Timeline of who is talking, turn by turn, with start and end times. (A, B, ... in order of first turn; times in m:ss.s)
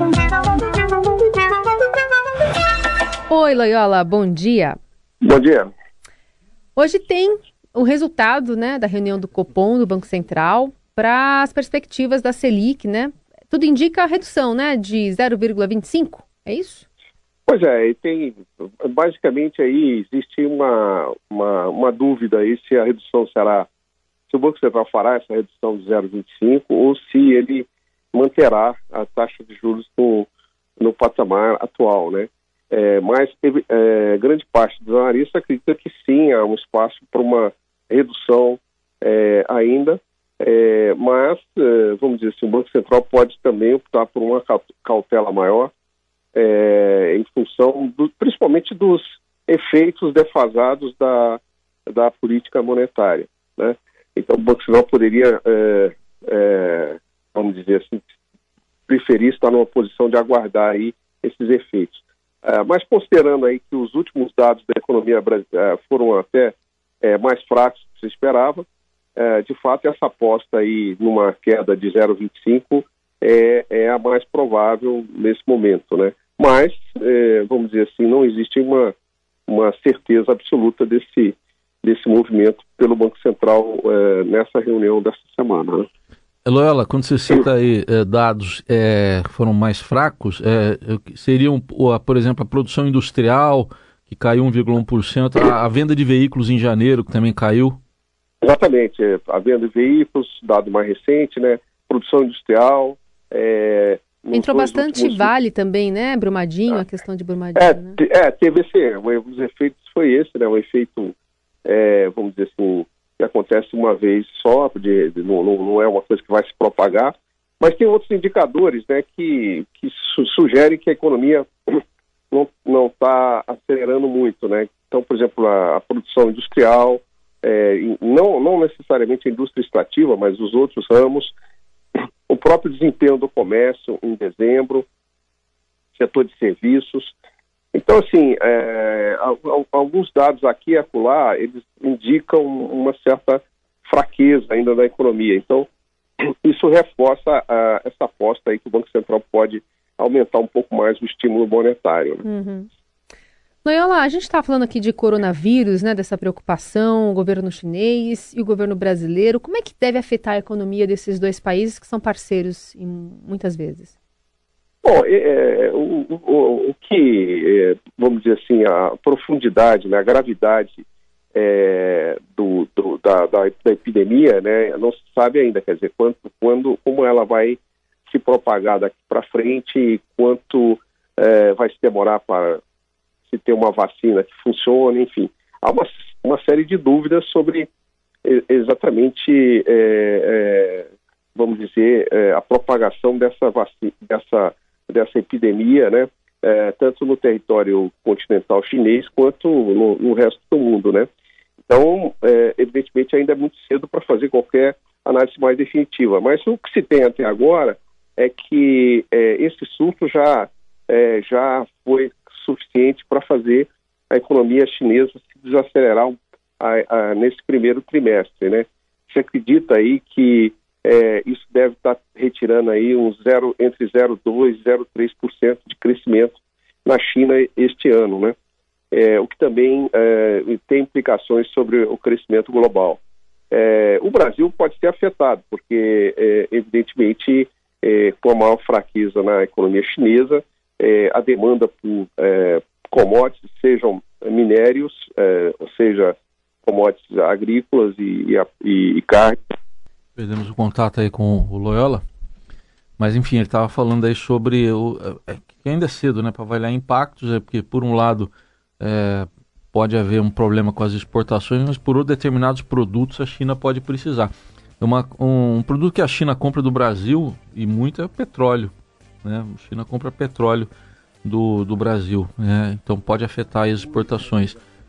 0:03.3-0:04.8 A
0:05.2-0:05.7 B
0:06.8-0:16.8 A
0:17.5-0:23.7 B
0:24.3-0:30.3 B
0:30.8-0:45.7 B
0:46.3-0:58.1 B
0:58.9-1:18.9 B
1:19.5-1:25.9 B
1:26.4-1:37.8 C
1:38.4-1:45.3 B
1:44.3-1:48.0 A
1:47.6-2:11.3 B
2:12.3-2:14.9 B
2:16.0-2:17.1 B
2:17.7-2:25.7 B
2:26.4-2:32.2 B
2:32.2-2:32.7 A
2:33.6-2:43.9 A
2:44.8-3:02.6 B
3:03.3-3:07.7 B
3:08.2-3:21.1 B
3:21.7-3:48.3 B
3:48.9-3:53.0 B
3:53.5-4:09.4 B
4:10.2-4:12.0 C
4:13.0-4:28.7 C
4:29.2-4:30.7 C
4:31.2-4:34.6 C